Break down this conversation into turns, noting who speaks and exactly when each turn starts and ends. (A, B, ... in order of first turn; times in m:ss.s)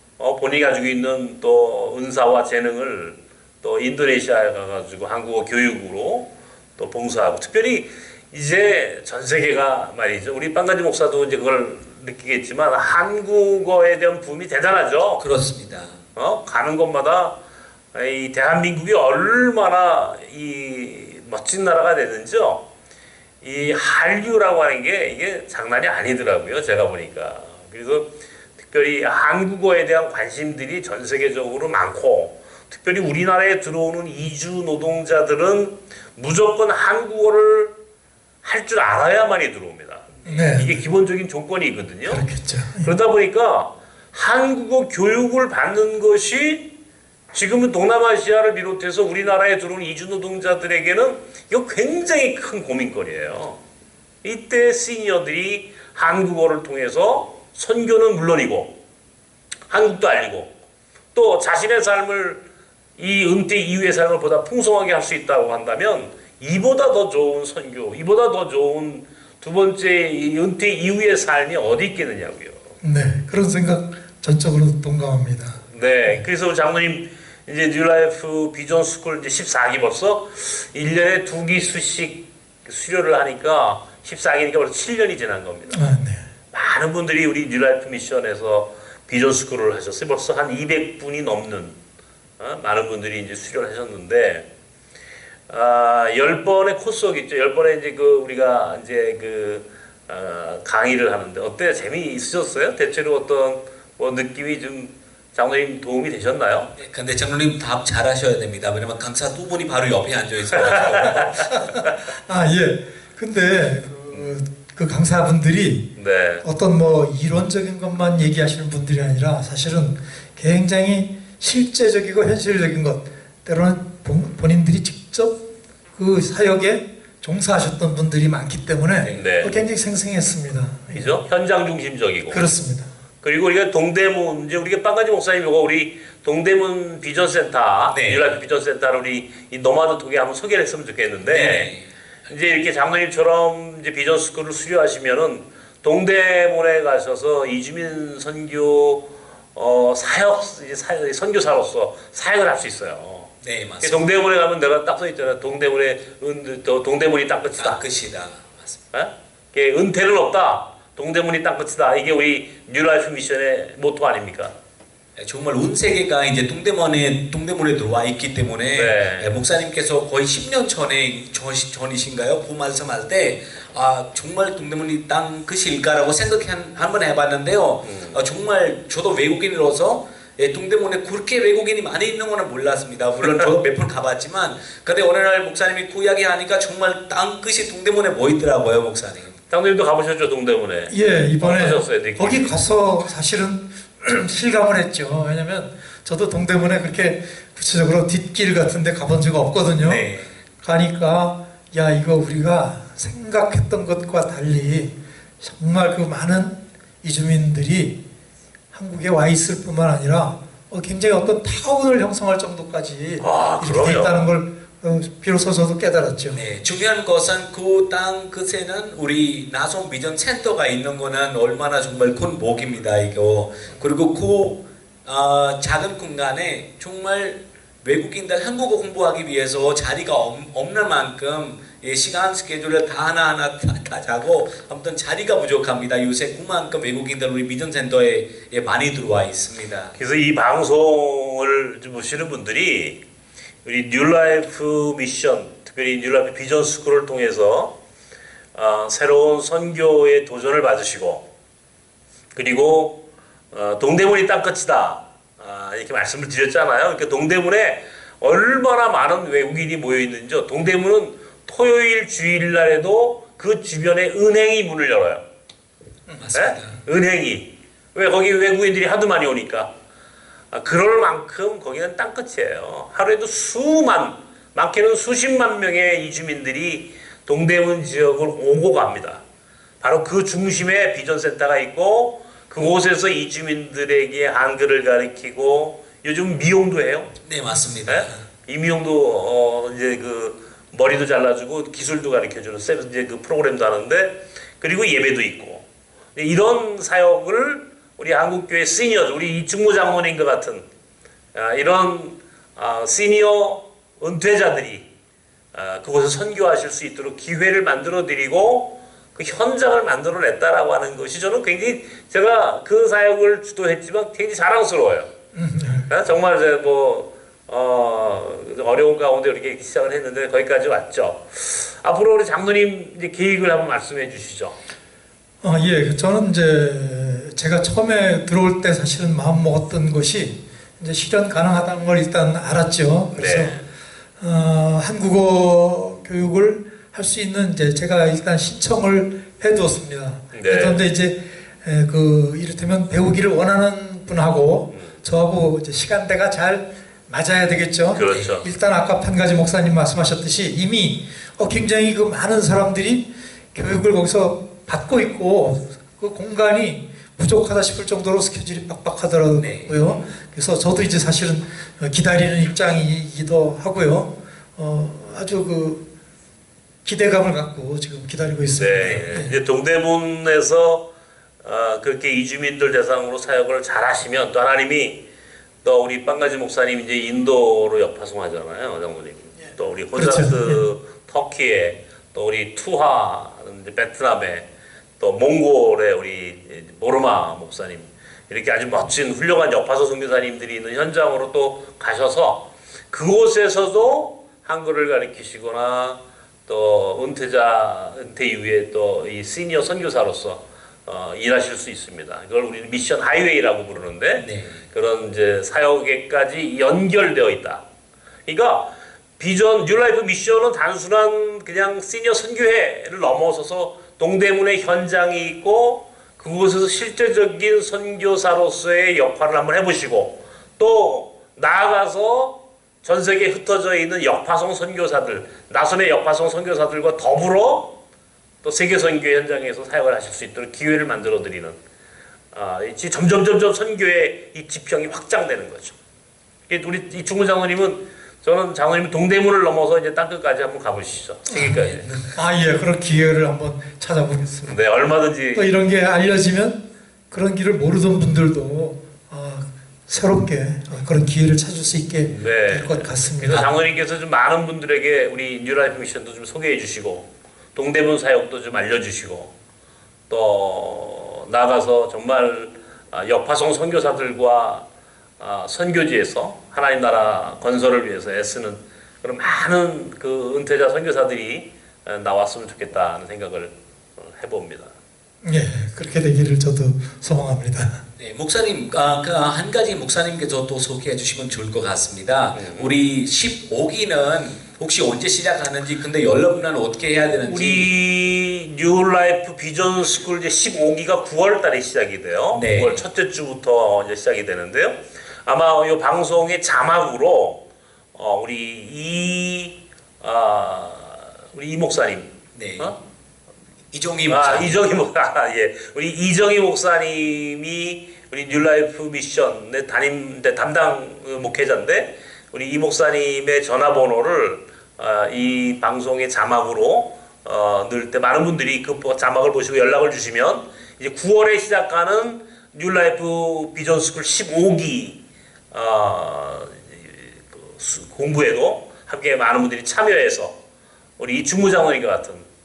0:00.2-0:15.2 A
0:15.2-0:16.0 B
0:16.1-0:17.4 A
0:17.9-0:22.6 A
0:23.4-0:28.1 A
0:28.6-0:37.7 A
0:38.4-0:42.2 A
0:40.2-0:40.8 C
0:42.1-0:42.9 C
0:42.8-0:46.7 A
0:47.3-0:53.6 A
0:54.2-0:58.7 A
0:59.7-1:00.5 A
1:01.1-1:02.4 A
1:03.0-1:12.6 A
1:12.8-1:16.2 C
1:15.7-1:25.8 A
1:25.7-1:26.2 C
1:26.5-1:31.8 A
1:32.4-1:34.4 A
1:35.5-1:46.7 A
1:46.8-1:51.2 B
1:50.5-1:51.7 A
1:51.2-1:55.9 C
1:56.0-1:56.4 A
1:56.4-2:05.4 C
2:06.0-2:11.2 C
2:09.1-2:09.6 A
2:10.9-2:12.4 A
2:12.3-2:12.9 C
2:13.2-2:21.7 A
2:17.9-2:18.4 B
2:21.2-2:21.9 B
2:22.3-2:33.3 A
2:33.4-2:34.1 B
2:33.8-2:37.8 A
2:37.6-2:38.7 B
2:38.9-2:44.5 A
2:45.2-3:09.3 B
2:48.7-2:49.4 A
2:57.8-2:58.2 A
3:09.5-3:12.5 A
3:10.9-3:28.0 C
3:19.8-3:20.3 B
3:28.7-3:36.4 C
3:33.2-3:34.3 A
3:36.3-3:59.9 B
3:59.9-4:03.0 A
4:03.6-4:07.8 A
4:08.5-4:11.2 A
4:12.3-4:25.2 A
4:26.2-4:26.8 B
4:26.3-4:29.7 A
4:30.5-4:39.2 A
4:39.8-4:47.1 A
4:47.2-4:48.2 B
4:47.8-5:00.6 A
5:01.3-5:04.8 A
5:05.5-5:15.1 A
5:15.3-5:15.9 C
5:15.9-5:24.6 A
5:25.4-5:33.6 C
5:33.1-5:33.6 A
5:34.2-6:05.8 C
5:40.3-5:40.8 A
5:47.9-5:48.4 A
5:48.0-5:48.4 B
5:59.3-5:59.8 B
6:06.8-6:09.3 C
6:08.5-6:10.8 A
6:08.8-6:09.1 B
6:11.4-6:15.0 A
6:15.6-6:24.5 A
6:19.9-6:20.6 C
6:25.0-6:47.6 A
6:44.2-6:44.6 B
6:48.2-7:07.8 A
7:08.4-7:11.6 A
7:12.3-7:15.7 A
7:16.5-7:22.0 A
7:21.3-7:21.6 C
7:21.3-7:22.1 B
7:22.1-7:24.6 C
7:24.4-7:25.5 A
7:25.3-7:33.5 C
7:32.1-7:39.3 A
7:40.1-7:44.6 A
7:45.2-7:54.7 A
7:55.2-7:57.8 C
7:58.0-8:07.7 B
8:02.3-8:02.8 A
8:07.2-8:17.4 A
8:12.3-8:12.8 B
8:17.9-8:22.8 A
8:22.3-8:22.7 B
8:23.7-8:24.6 B
8:24.1-8:45.0 A
8:45.5-8:50.3 A
8:51.0-8:52.2 A